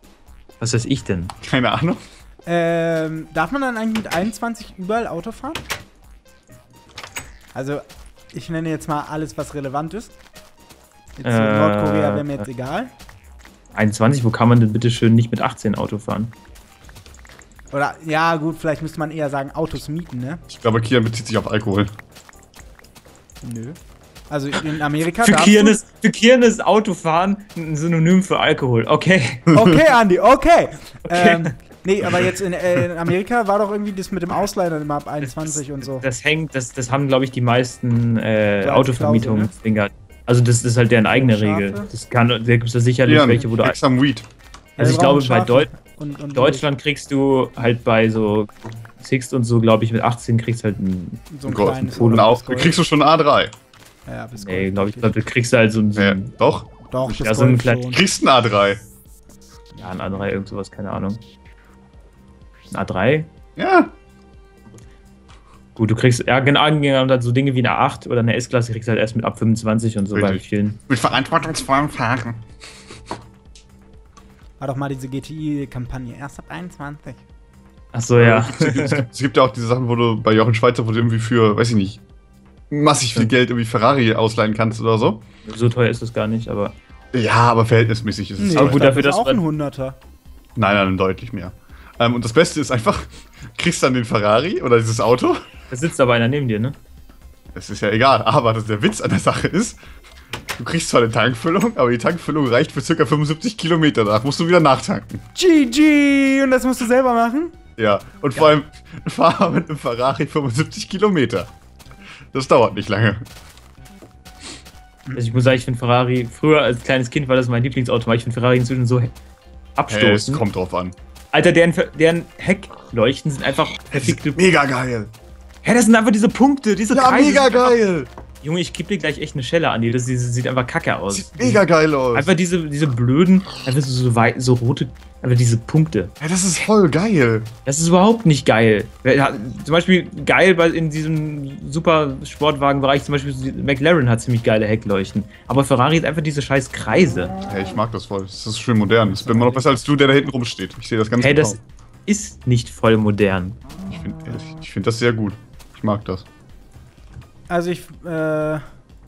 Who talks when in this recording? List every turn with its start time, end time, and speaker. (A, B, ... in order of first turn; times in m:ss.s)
0:00.6-0:01.3 A
0:01.4-0:02.0 B
0:02.4-0:05.6 C
0:07.5-0:10.1 C
0:11.2-0:12.9 C
0:11.2-0:12.4 A
0:13.7-0:16.3 A
0:17.7-0:20.4 C
0:20.5-0:21.9 B
0:23.4-0:23.8 C
0:24.3-0:25.8 C
0:25.2-0:29.4 A
0:29.5-0:36.0 C
0:31.1-0:31.5 A
0:35.2-0:43.8 A
0:38.6-0:39.5 C
0:41.2-0:41.9 C
0:43.0-0:44.2 B
0:44.8-0:45.7 A
0:44.8-0:46.7 C
0:46.3-0:51.2 A
0:51.3-0:52.8 C
0:51.4-0:53.5 B
0:51.9-0:52.3 A
0:54.0-0:55.2 C
0:54.4-0:56.3 A
0:56.0-0:56.7 B
0:56.9-0:58.0 C
0:57.1-0:57.8 A
0:57.9-0:58.8 B
0:59.7-1:00.3 C
0:59.8-1:01.2 A
1:02.7-1:03.3 A
1:03.6-1:03.9 B
1:05.8-1:10.8 A
1:10.1-1:12.4 B
1:14.6-1:17.2 C
1:17.9-1:19.0 A
1:18.1-1:22.0 B
1:22.7-1:25.2 B
1:25.4-1:26.7 A
1:27.1-1:28.9 B
1:28.4-1:30.0 C
1:28.5-1:29.4 A
1:30.6-1:35.4 B
1:35.7-1:36.8 A
1:37.5-1:39.8 B
1:40.6-1:45.2 B
1:45.3-1:47.5 C
1:47.8-1:51.5 B
1:52.3-1:53.2 B
1:55.2-1:59.1 A
1:59.8-2:00.4 A
1:59.9-2:00.9 B
2:01.3-2:04.4 A
2:03.9-2:05.1 B
2:05.6-2:07.8 A
2:06.9-2:08.1 B
2:08.4-2:16.1 A
2:11.1-2:12.3 B
2:16.2-2:17.5 B
2:17.6-2:27.3 A
2:27.4-2:31.6 B
2:29.2-2:29.6 C
2:31.2-2:33.6 A
2:33.8-2:36.2 B
2:37.5-2:38.6 C